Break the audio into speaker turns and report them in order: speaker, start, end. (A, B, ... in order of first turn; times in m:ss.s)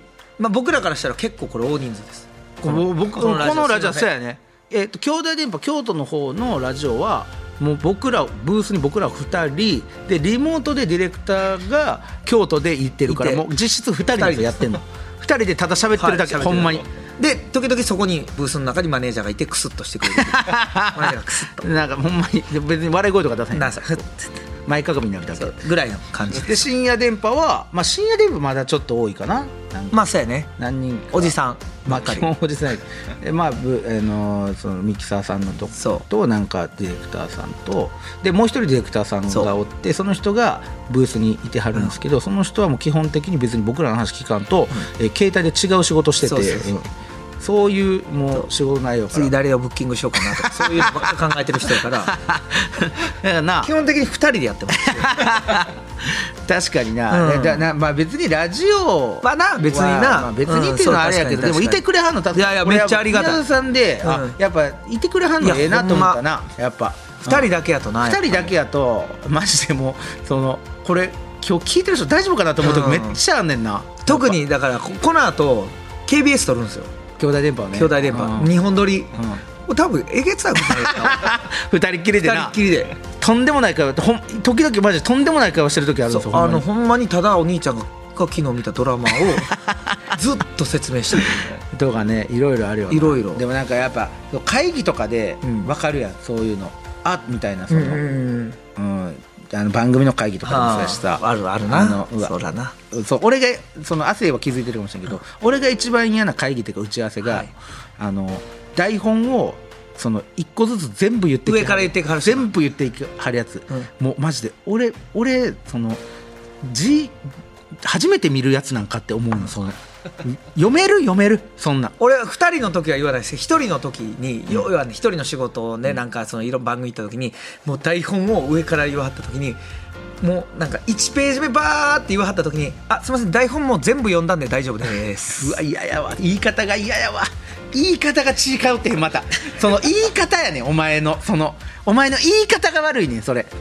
0:00.4-0:04.1 A
0:02.6-0:16.8 B
0:13.0-0:13.4 A
0:14.2-0:14.8 A
0:16.0-0:21.7 A
0:20.1-0:24.0 B
0:23.5-0:24.3 A
0:24.7-0:25.6 B
0:25.4-0:26.6 A
0:26.3-0:30.0 B
0:29.9-0:30.5 A
0:30.6-0:46.9 B
0:31.1-0:32.3 A
0:46.2-0:46.7 A
0:47.4-0:49.3 B
0:49.1-0:52.2 A
0:50.4-0:51.2 B
0:51.7-0:53.7 B
0:53.6-0:55.6 A
0:54.8-1:14.4 B
0:57.1-0:57.6 A
0:59.2-1:01.8 A
1:02.3-1:03.4 A
1:04.0-1:04.4 A
1:05.4-1:06.2 A
1:07.2-1:08.5 A
1:12.6-1:13.2 A
1:14.0-1:16.9 A
1:17.2-1:18.6 B
1:17.7-1:21.4 A
1:19.1-1:19.4 B
1:20.6-1:26.6 B
1:22.2-1:22.9 A
1:26.1-1:29.6 A
1:30.1-1:31.6 A
1:31.6-1:38.0 B
1:32.9-1:33.4 A
1:35.4-1:35.7 A
1:37.7-1:38.6 A
1:38.7-1:42.3 B
1:40.4-1:42.7 A
1:42.9-1:56.0 B
1:47.2-1:47.5 A
1:51.4-1:52.5 A
1:56.6-1:57.2 B
1:57.8-2:01.9 B
2:02.0-2:09.6 A
2:10.2-2:15.6 A
2:15.4-2:23.5 B